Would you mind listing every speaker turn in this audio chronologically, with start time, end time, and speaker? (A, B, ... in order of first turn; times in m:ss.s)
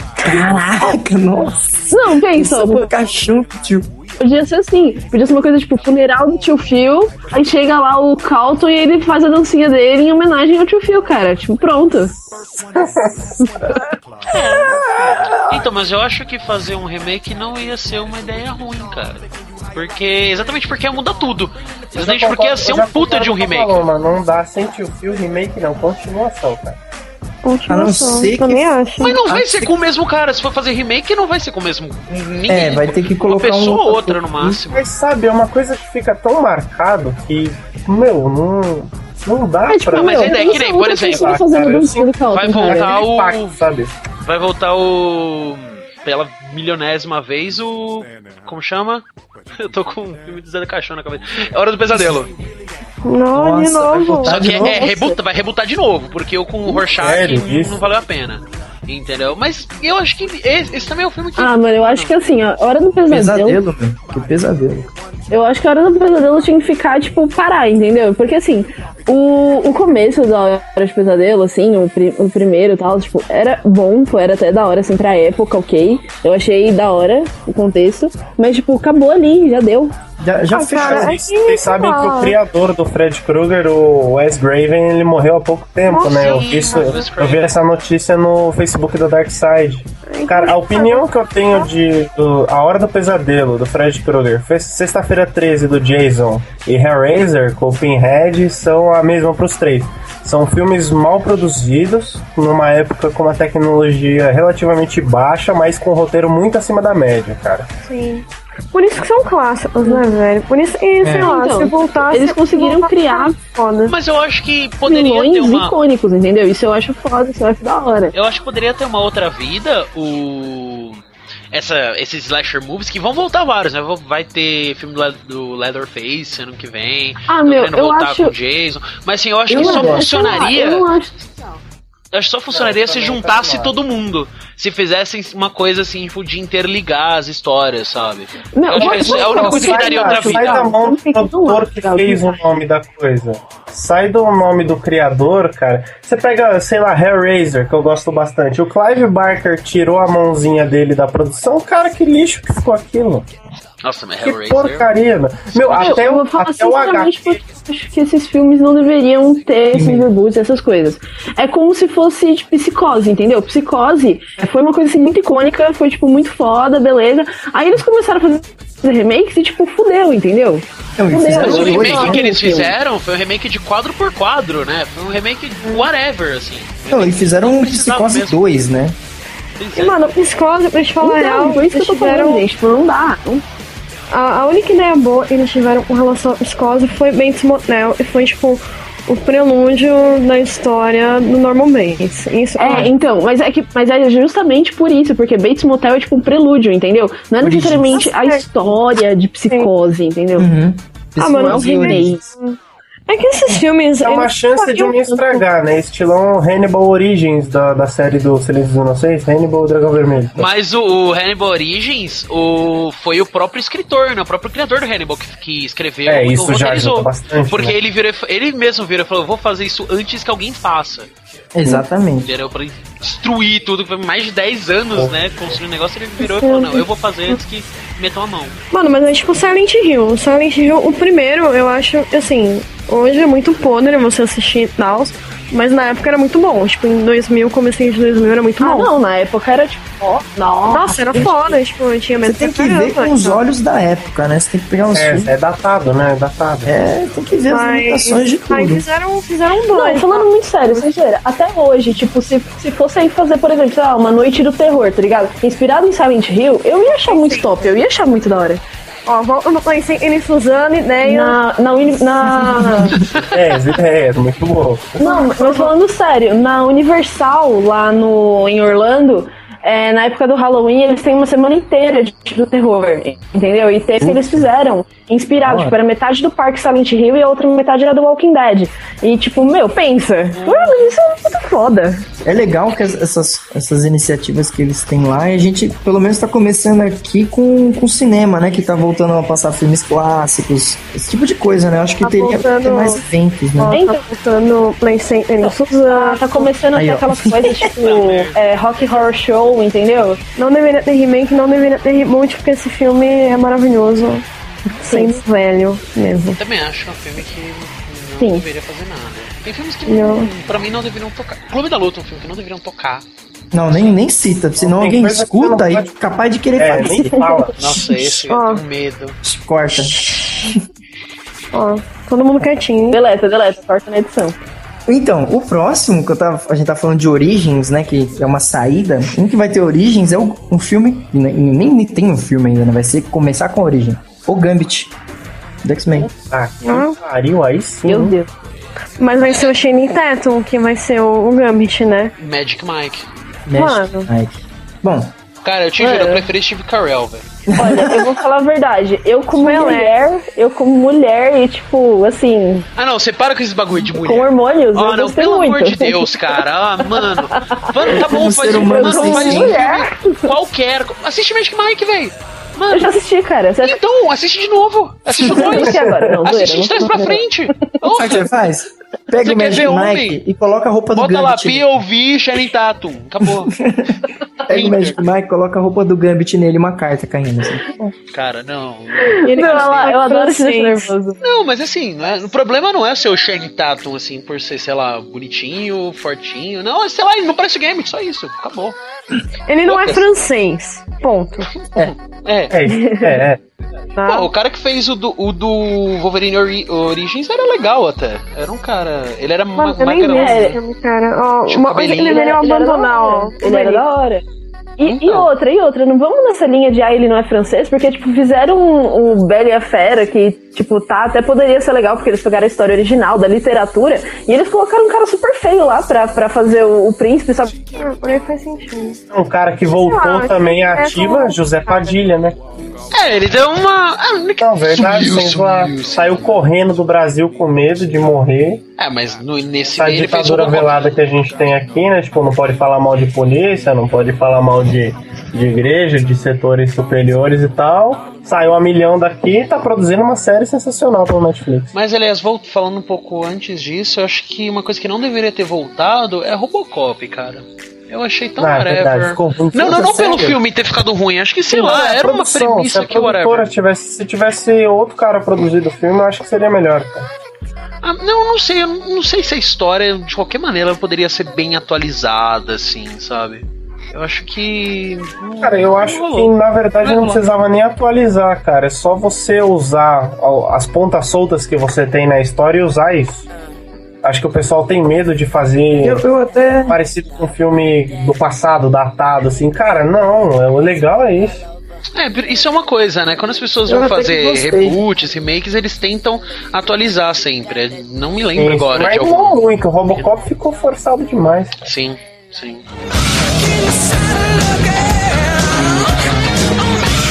0:00.2-0:03.9 A
0:01.9-0:02.9 B
0:04.2-0:12.1 B
0:12.8-0:13.4 C
0:14.3-0:23.9 D
0:14.5-0:15.6 A
0:22.0-0:26.8 C
0:27.4-0:29.2 E
0:27.7-0:29.7 A
0:29.0-0:34.8 D
0:32.5-0:34.6 A
0:34.7-0:43.9 C
0:39.7-0:43.0 B
0:39.9-0:41.4 D
0:42.3-0:43.6 D
0:44.2-0:49.0 D
0:49.6-0:52.3 D
0:53.0-0:54.4 E
0:53.3-0:54.9 A
0:54.2-1:02.2 D
0:54.7-0:55.1 B
0:56.7-0:57.8 C
1:01.4-1:03.6 B
1:03.1-1:05.0 A
1:05.3-1:20.0 B
1:20.2-1:21.2 A
1:20.5-1:22.4 E
1:20.7-1:47.7 C
1:25.8-1:27.0 E
1:25.9-1:27.5 D
1:30.1-1:31.7 E
1:47.8-1:53.9 E
1:51.0-1:51.3 A
1:51.0-1:53.4 B
1:53.9-1:55.8 D
1:54.9-1:58.1 B
1:58.1-2:10.9 D
2:07.3-2:08.3 B
2:09.5-2:11.6 B
2:09.5-2:10.1 A
2:12.1-2:20.7 D
2:12.5-2:13.8 C
2:18.5-2:22.6 B
2:18.7-2:33.3 C
2:33.8-2:34.9 D
2:34.2-2:37.4 C
2:35.5-2:36.0 D
2:35.8-2:52.7 B
2:39.7-2:40.1 A
2:51.0-2:52.3 A
2:51.3-2:58.5 D
2:51.6-2:52.2 E
2:56.9-2:59.0 A
2:59.6-3:00.1 D
2:59.8-3:02.5 E
3:01.0-3:03.4 B
3:04.1-3:12.9 E
3:12.6-3:20.5 B
3:17.4-3:17.9 A
3:17.9-3:18.4 E
3:20.4-3:22.3 A
3:21.2-3:25.4 E
3:21.2-3:22.2 B
3:24.0-3:30.5 C
3:30.4-3:41.1 D
3:36.1-3:37.8 C
3:41.5-3:42.3 A
3:41.7-3:48.6 D
3:44.9-3:45.6 C
3:46.2-3:47.4 E
3:48.7-3:58.9 E
3:58.6-4:01.6 B
4:00.7-4:03.4 E
4:02.2-4:05.3 A
4:04.9-4:06.8 C
4:06.6-4:08.9 A
4:07.5-4:10.9 E
4:09.7-4:18.6 B
4:17.0-4:17.6 E
4:19.1-4:21.4 E
4:21.0-4:23.0 B
4:23.3-4:25.2 C
4:25.0-4:42.1 B
4:25.0-4:25.7 E
4:34.0-4:34.5 A
4:35.4-4:35.8 A
4:40.3-4:41.0 D
4:42.2-4:53.8 A
4:52.0-4:53.0 E
4:53.6-4:56.5 E
4:53.7-4:54.0 B
4:55.5-5:00.2 B
4:56.8-4:57.7 A
4:57.7-4:59.2 D
5:00.4-5:04.2 E
5:04.8-5:06.4 E
5:04.9-5:05.2 B
5:06.4-5:13.0 D
5:09.9-5:10.3 E
5:13.5-5:17.1 A
5:13.7-5:14.0 D
5:14.6-5:15.9 C
5:16.6-5:17.5 C
5:17.6-5:19.2 D
5:17.7-5:18.1 A
5:18.3-5:18.6 E
5:19.2-5:20.6 A
5:21.5-5:23.0 E
5:22.9-5:24.4 B
5:24.9-5:35.0 A
5:35.6-5:36.1 A
5:36.0-5:38.2 C
5:36.6-5:37.0 E
5:37.8-5:38.3 B
5:39.0-5:42.1 E
5:42.2-5:43.1 D
5:43.5-5:45.2 A
5:43.6-5:44.1 E
5:45.4-5:47.3 D
5:45.8-5:46.3 B
5:47.5-5:48.2 A
5:47.6-5:52.7 B
5:49.3-5:49.9 E
5:52.8-6:03.0 D
5:53.9-5:56.4 B
5:56.9-5:58.0 B
5:57.9-5:59.6 A
5:58.6-6:00.3 B
6:02.7-6:03.8 B
6:03.6-6:08.3 D
6:05.2-6:07.8 B
6:05.6-6:06.2 C
6:07.9-6:11.8 A
6:09.2-6:10.2 D
6:10.9-6:13.6 D
6:13.2-6:17.6 A
6:14.5-6:15.0 D
6:18.1-6:20.0 D
6:19.0-6:21.2 B
6:19.2-6:20.9 E
6:21.2-6:28.8 D
6:29.5-6:31.5 E
6:29.7-6:30.0 D
6:31.7-6:32.6 D
6:32.5-6:33.4 C
6:32.7-6:33.2 B
6:34.0-6:34.3 E
6:34.0-6:40.6 D
6:39.6-6:43.8 E
6:40.1-6:40.6 B
6:41.5-6:42.3 D
6:41.9-6:44.2 B
6:44.8-6:57.6 B
6:44.8-6:45.3 D
6:57.7-6:59.0 E
6:59.1-7:02.4 C
6:59.8-7:01.9 E
7:02.9-7:06.4 D
7:04.4-7:08.6 C
7:08.8-7:11.0 D
7:09.8-7:21.7 C
7:21.7-7:33.5 D
7:28.4-7:30.4 C
7:31.5-7:37.1 C
7:37.8-7:47.3 D
7:45.4-7:53.3 C
7:54.0-7:56.0 C
7:55.8-7:56.8 A
7:56.7-8:01.5 C
8:02.0-8:10.1 D
8:03.7-8:04.8 A
8:08.4-8:11.7 C
8:11.6-8:12.7 D